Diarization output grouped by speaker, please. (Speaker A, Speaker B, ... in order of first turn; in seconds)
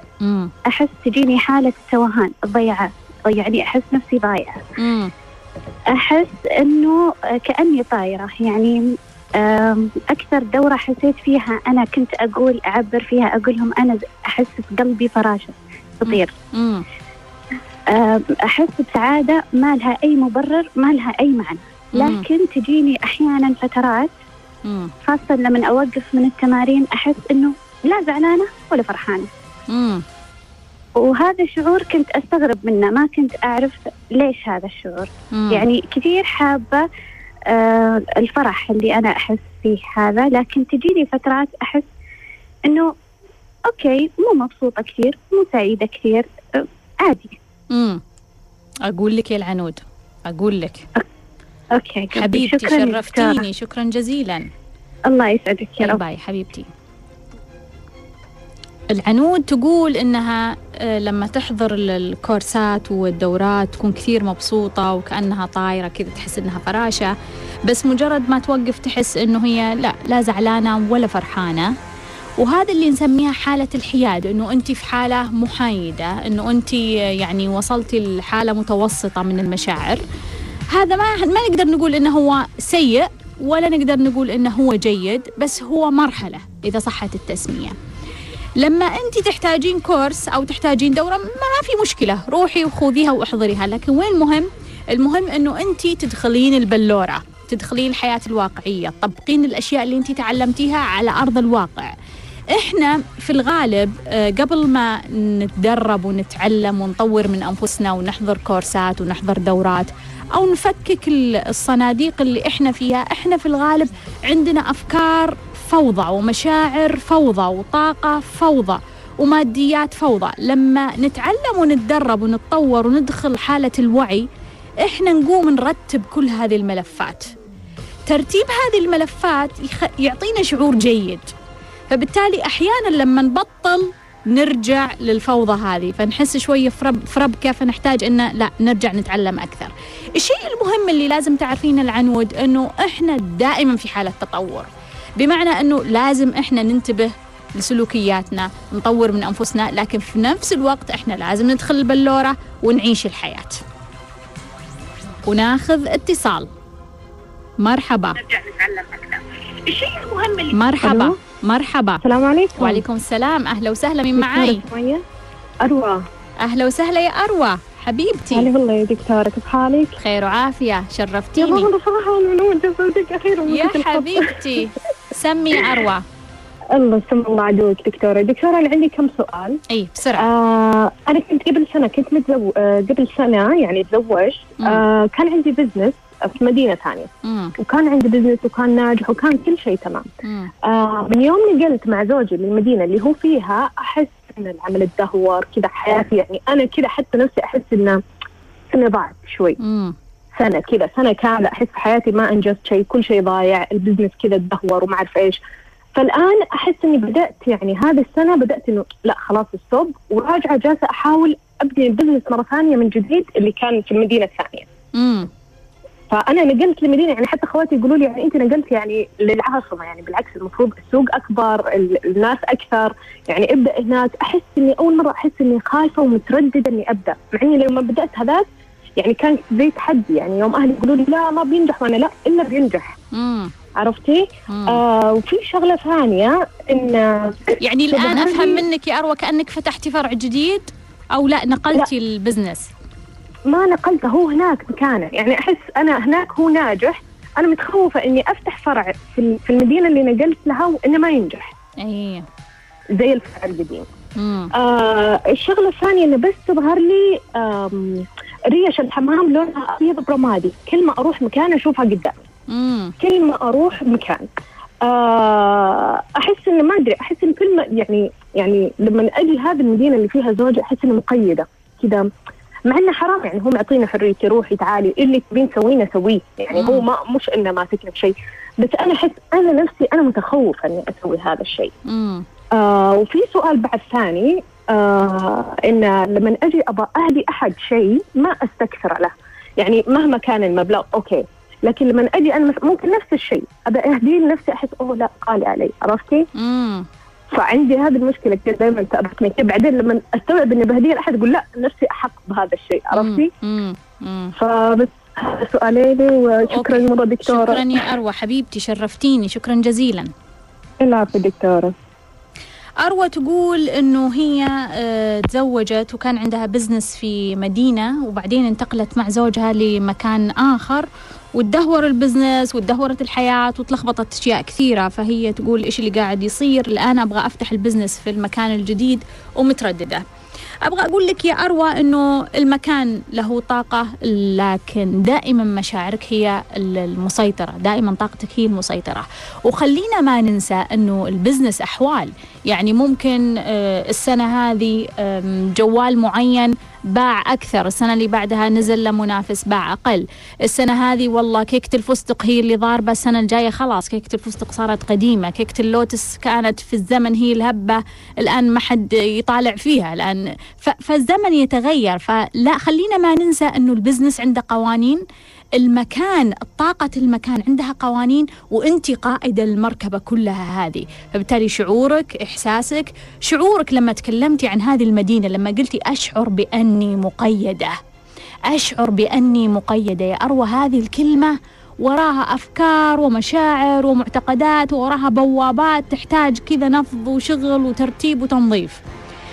Speaker A: 0.2-0.5, 4.8-5.1, 16.1-16.8, 21.9-22.3, 24.6-24.9, 29.7-30.0, 35.3-35.6, 47.7-48.0, 48.9-50.9, 52.1-54.5, 55.8-56.7, 58.9-67.1, 67.7-71.8, 72.4-80.0, 80.7-87.8, 88.6-101.9, 102.5-124.3, 124.8-127.3, 128.1-131.3, 131.9-153.6, 155.3-156.5, 157.6-158.2, 160.5-162.0, 162.6-164.6, 166.4-168.5, 170.0-171.7, 173.5-176.1, 179.7-180.3, 187.2-187.5, 190.2-190.5, 199.6-199.9, 215.0-215.3, 233.1-233.5, 234.5-234.8, 237.6-242.7, 251.8-252.2, 254.2-254.5, 262.5-262.9, 276.5-276.9, 281.9-282.2, 296.4-296.9, 302.9-304.3, 306.5-310.1, 312.8-330.0, 330.6-365.0, 365.6-377.8, 378.5-388.8
Speaker B: 0.7-4.6, 5.9-8.8, 9.4-16.4, 17.9-24.1, 25.1-29.3, 31.0-36.9, 37.5-41.9, 42.7-42.9, 43.7-47.4, 51.7-53.5, 55.1-56.0, 158.4-159.2, 159.7-160.5
Speaker C: 160.8-161.2, 162.0-162.8, 164.2-165.0, 165.6-166.0, 168.3-170.0, 171.4-174.3, 176.7-179.6, 180.2-190.1, 190.6-198.0, 198.7-199.6, 200.4-205.4, 206.0-214.7, 216.1-228.5, 229.0-232.9, 233.8-238.6, 243.5-251.5, 252.9-253.9, 254.6-262.2, 263.0-264.3, 264.9-272.1, 272.7-281.7, 282.6-296.3, 297.3-303.3, 304.4-307.7, 310.8-311.7